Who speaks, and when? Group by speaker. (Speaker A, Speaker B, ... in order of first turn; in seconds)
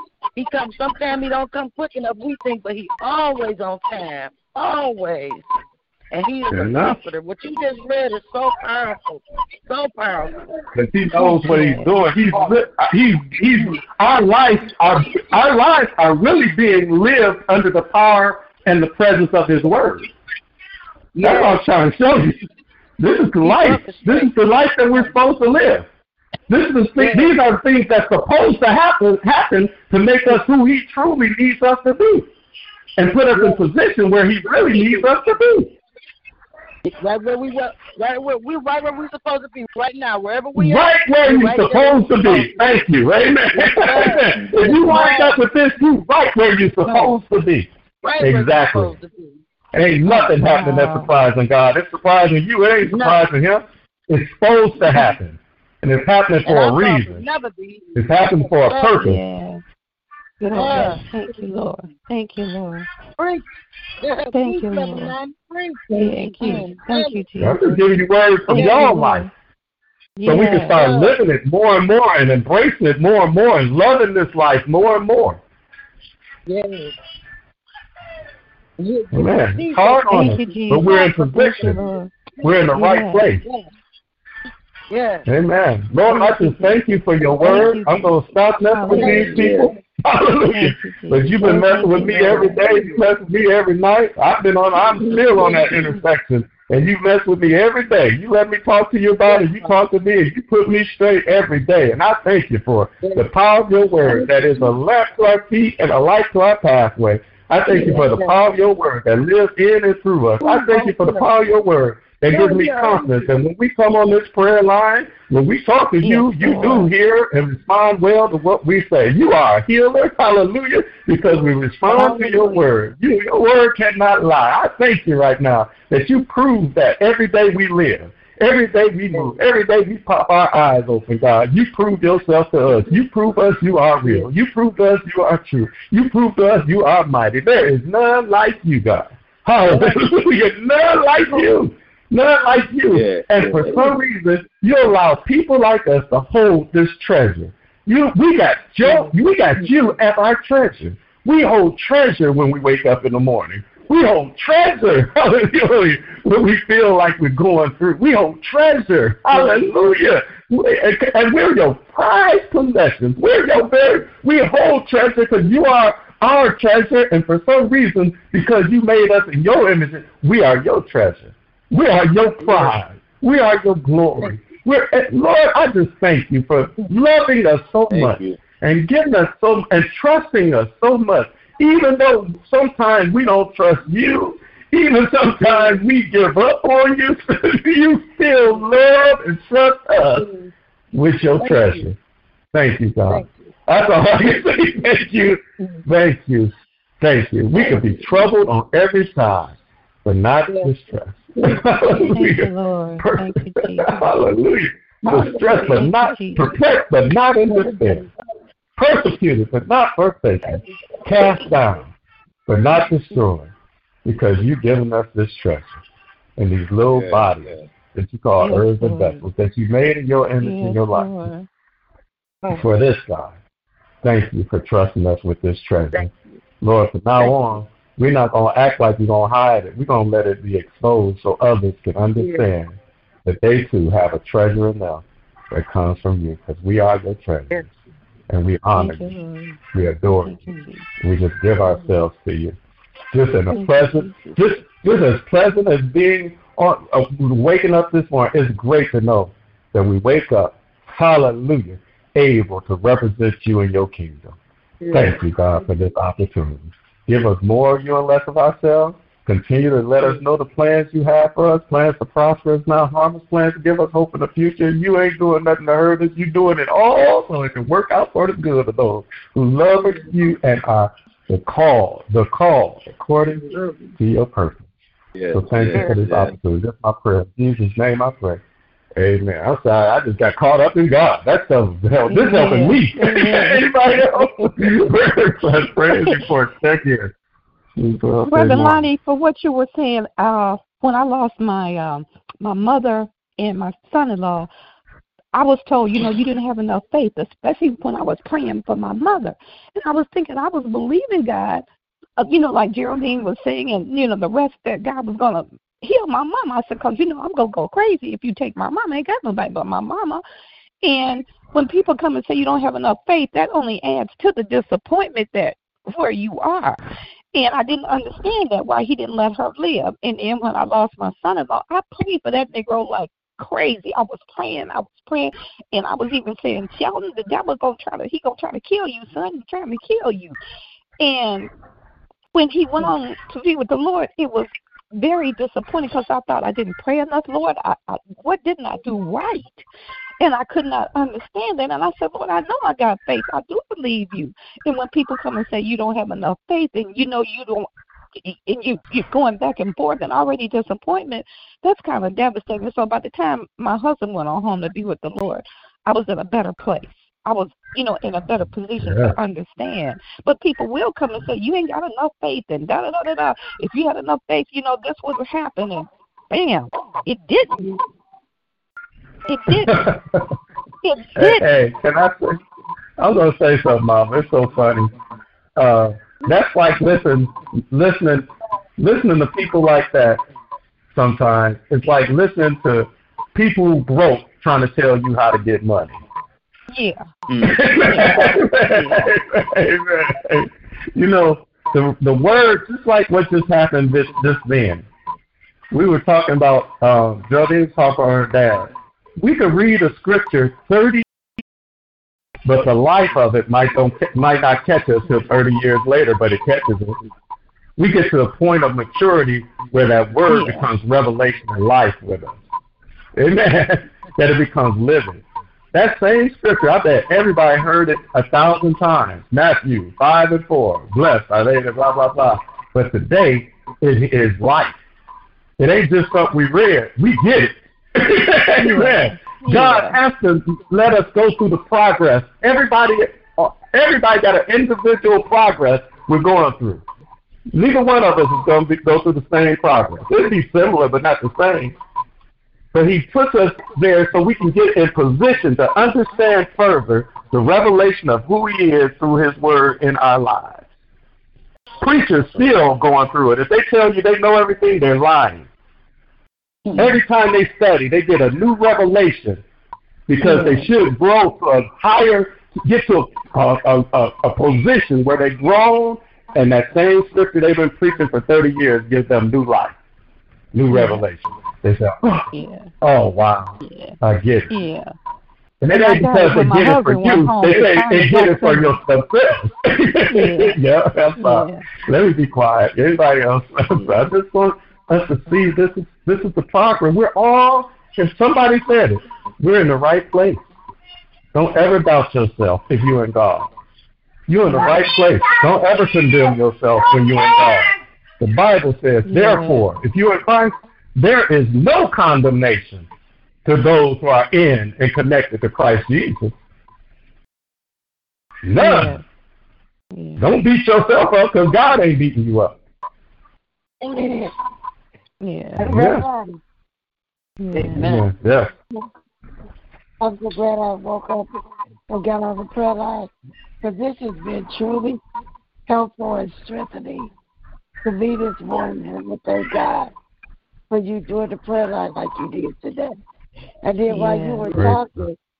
Speaker A: 0.3-5.5, 6.1-10.3, 21.1-21.6, 23.4-24.4, 27.0-27.4, 33.3-33.6, 36.9-42.8, 43.5-45.4, 46.8-47.2, 48.0-49.4, 52.9-53.2, 56.4-59.1, 60.5-61.5, 63.2-63.4, 64.0-67.7, 68.5-69.0, 70.6-71.2, 76.5-76.9, 78.8-81.0, 81.6-82.7, 83.4-83.7, 84.9-85.3, 86.1-87.8, 88.9-89.7, 92.0-93.0, 95.0-96.0, 99.2-99.8, 103.0-103.3, 104.0-104.7, 107.7-108.4, 110.4-111.3, 112.3-113.3, 121.9-122.7, 134.0-134.3, 139.7-140.1, 159.3-159.7, 172.4-172.7, 185.4-185.8, 190.1-190.5, 191.4-191.9, 193.0-193.5, 197.5-198.3, 200.4-200.7, 205.0-205.8, 207.5-208.1, 225.9-226.4, 232.2-232.5, 254.8-255.7, 273.5-273.9, 456.6-456.9, 515.7-516.0, 517.5-518.0
Speaker B: 6.5-7.0, 10.7-20.1, 21.2-22.4, 23.0-25.9, 26.5-32.3, 33.0-35.7, 40.5-47.7, 48.2-48.9, 49.7-57.2, 58.0-59.2, 67.4-69.3, 70.2-75.4, 79.1-81.8, 82.4-83.4, 85.2-190.2, 190.9-192.0, 192.5-208.0, 208.8-211.9, 212.5-213.5, 214.0-215.8, 216.4-221.2, 222.5-223.4, 224.0-226.1, 226.6-237.7, 238.3-239.1, 239.7-240.5, 241.0-242.6, 243.1-254.4, 254.9-274.7, 275.3-278.4, 278.9-287.1, 287.8-288.9, 358.8-359.2, 369.6-370.3, 371.1-372.4, 373.0-374.9, 375.6-378.3, 378.8-380.2, 380.9-386.0, 387.4-394.9, 395.7-401.0, 402.4-407.0, 407.8-412.4, 413.1-424.8, 425.6-436.8, 437.5-441.8, 442.7-450.6, 451.8-455.5, 456.8-459.4, 460.1-469.8, 470.5-472.3, 472.8-474.5, 475.6-490.4, 491.3-493.5, 494.3-502.9, 503.4-506.4, 508.4-509.0, 510.2-512.6, 515.6-516.0, 517.6-518.5, 534.5-535.0
Speaker C: 11.1-12.0, 50.0-51.1, 59.0-59.6, 60.4-62.9, 64.3-65.2, 65.9-67.8, 68.5-69.3, 70.2-70.8, 80.1-82.1, 82.7-83.3, 87.4-89.5, 90.5-92.6, 116.0-116.9, 202.0-204.1, 205.4-206.5, 218.4-219.2, 220.4-221.5, 238.7-240.9, 243.5-244.6, 282.1-284.5, 285.9-286.3, 288.3-294.5, 295.3-301.6, 302.2-310.2, 310.8-316.8, 317.3-330.4, 331.0-331.5, 332.3-339.6, 340.2-347.7, 348.2-367.6, 369.3-369.8, 370.8-371.5, 386.7-387.0, 387.8-389.1, 410.2-410.7, 428.6-430.0, 460.2-460.7, 470.7-471.0, 472.3-472.7, 473.6-474.0, 474.5-474.9, 475.7-478.8, 480.1-480.6, 481.1-481.7, 483.7-484.0, 499.0-499.6, 508.5-509.0, 509.9-510.3, 515.2-515.7, 517.4-518.0, 533.9-534.6
Speaker D: 44.3-44.8, 89.2-89.7, 142.9-143.9, 177.9-178.4, 216.9-217.7, 275.1-276.3
Speaker E: 513.8-514.3, 515.6-516.4, 517.6-517.9, 520.0-521.4, 521.9-523.1, 523.6-525.0, 525.7-527.1, 527.8-529.9, 530.7-533.0, 533.6-535.2